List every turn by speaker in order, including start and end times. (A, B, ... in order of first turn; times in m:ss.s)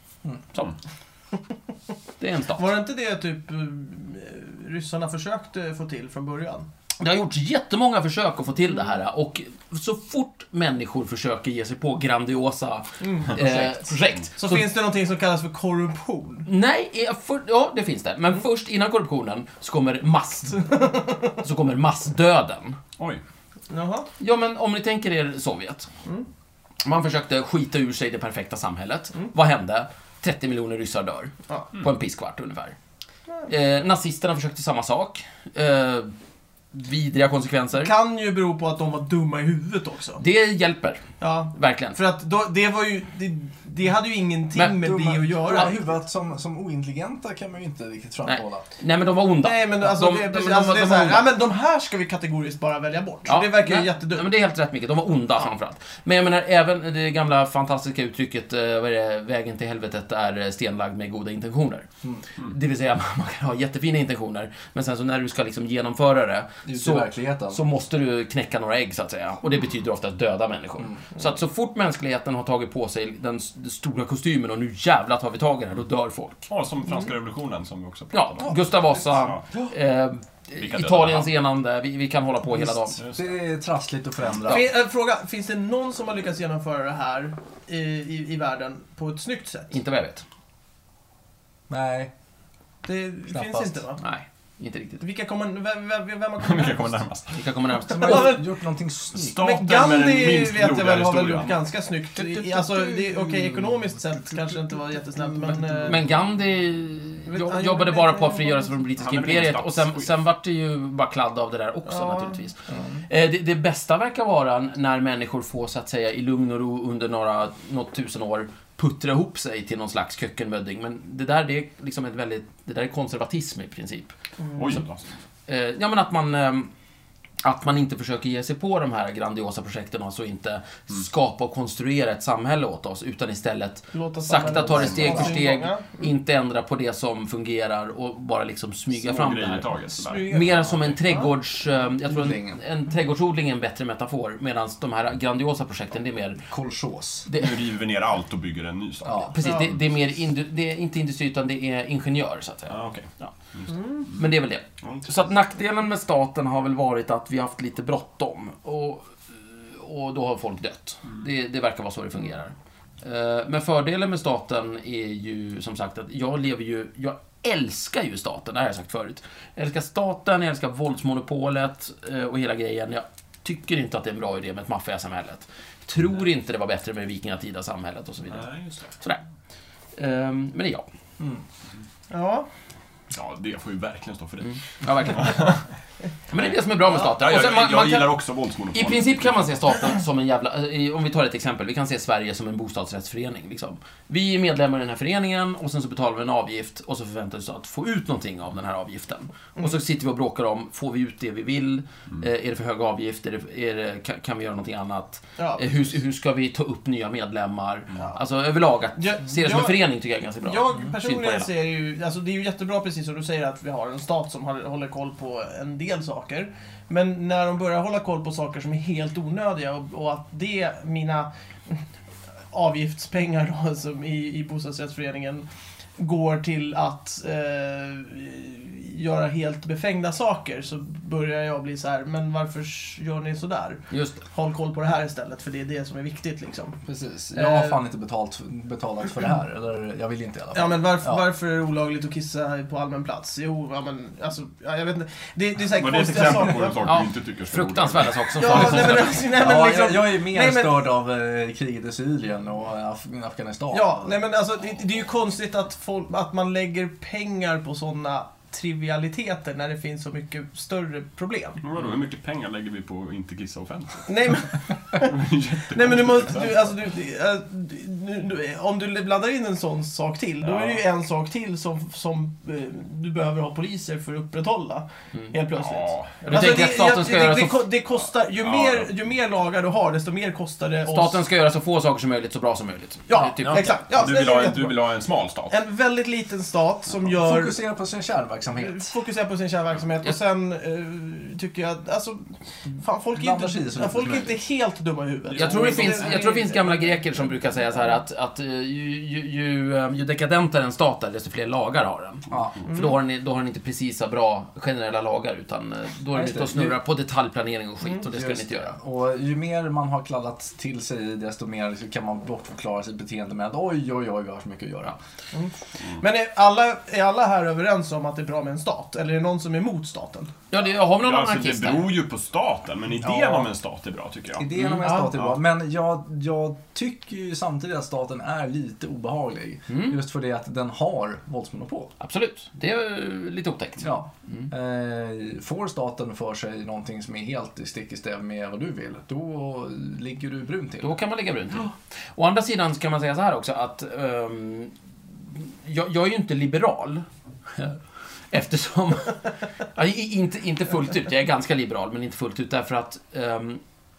0:02.2-0:02.7 A
0:02.6-0:06.7 B
0:07.0-0:14.7 A
0:13.0-0:13.4 B
0:14.4-0:16.5 B
0:16.4-0:22.8 A
0:23.7-0:24.1 B
0:24.2-0:25.9 A
0:26.8-0:32.8 A
0:33.5-0:36.1 A
0:36.7-0:37.9 A
0:37.8-0:40.2 B
0:40.2-0:41.0 A
0:41.2-0:45.8 B
0:41.5-0:42.0 A
0:44.5-0:44.8 A
0:44.8-0:48.6 C
0:45.4-0:45.7 A
0:48.2-0:51.2 A
0:49.4-0:54.3 B
0:53.2-1:01.9 A
1:02.4-1:16.5 A
1:06.6-1:07.6 C
1:16.5-1:18.5 D
1:18.1-1:23.0 A
1:20.6-1:21.3 D
1:22.5-1:24.7 C
1:23.0-1:23.2 D
1:24.4-1:29.7 B
1:29.7-1:30.2 A
1:31.7-1:32.1 C
1:32.8-1:34.0 B
1:33.3-1:33.8 C
1:34.0-1:35.0 A
1:35.0-1:37.0 B
1:36.4-1:37.4 D
1:37.3-1:38.4 A
1:37.9-1:38.4 B
1:38.0-1:39.6 C
1:39.1-1:41.6 D
1:39.4-1:46.0 B
1:42.1-1:44.6 C
1:45.4-1:45.9 C
1:45.8-2:04.1 A
1:47.3-1:48.7 B
1:49.0-1:50.1 D
1:51.9-1:52.4 B
2:04.6-2:05.0 D
2:05.5-2:06.7 A
2:07.4-2:26.4 A
2:13.9-2:16.0 B
2:14.6-2:15.3 D
2:18.9-2:20.4 D
2:20.0-2:21.3 B
2:22.0-2:22.6 C
2:26.5-2:27.3 C
2:27.3-2:27.6 A
2:27.3-2:29.6 D
2:29.0-2:29.4 C
2:29.3-2:33.3 A
2:29.4-2:29.7 B
2:32.7-2:34.2 D
2:33.7-2:34.0 B
2:34.1-2:59.2 A
2:34.8-2:35.1 D
2:58.3-2:58.9 D
2:59.9-3:00.8 A
3:02.1-3:02.5 B
3:03.1-3:05.6 D
3:04.4-3:05.6 A
3:06.3-3:08.2 A
3:06.3-3:09.5 D
3:08.7-3:31.5 A
3:25.4-3:25.9 B
3:27.9-3:28.2 B
3:29.0-3:29.8 B
3:30.4-3:41.8 B
3:42.5-3:45.4 B
3:46.0-3:56.8 B
3:53.9-3:54.2 A
3:56.8-4:01.2 C
3:57.3-3:57.8 B
4:00.5-4:06.9 B
4:05.7-4:08.5 D
4:06.8-4:09.2 A
4:08.4-4:10.7 B
4:09.2-4:14.2 C
4:13.7-4:21.6 B
4:21.6-4:24.4 D
4:24.1-4:25.1 B
4:24.9-4:26.7 D
4:25.7-4:41.2 B
4:30.4-4:30.8 D
4:35.5-4:36.2 D
4:36.2-4:37.6 A
4:38.4-4:38.9 D
4:40.8-4:43.8 A
4:43.1-4:44.8 B
4:43.4-4:45.5 D
4:45.5-4:47.5 B
4:47.1-4:48.9 C
4:48.6-4:57.0 B
4:53.1-4:54.4 C
4:55.3-4:56.2 D
4:55.3-5:08.8 A
5:02.3-5:02.5 C
5:02.7-5:02.9 B
5:06.1-5:06.8 C
5:08.0-5:15.0 C
5:15.3-5:20.3 B
5:20.5-5:21.9 A
5:21.0-5:24.5 D
5:23.0-5:23.5 C
5:24.4-5:31.9 C
5:24.5-5:24.8 A
5:24.8-5:25.2 B
5:29.7-5:30.0 A
5:32.0-5:34.5 A
5:33.8-5:41.0 C
5:40.8-5:47.8 A
5:48.3-5:53.6 A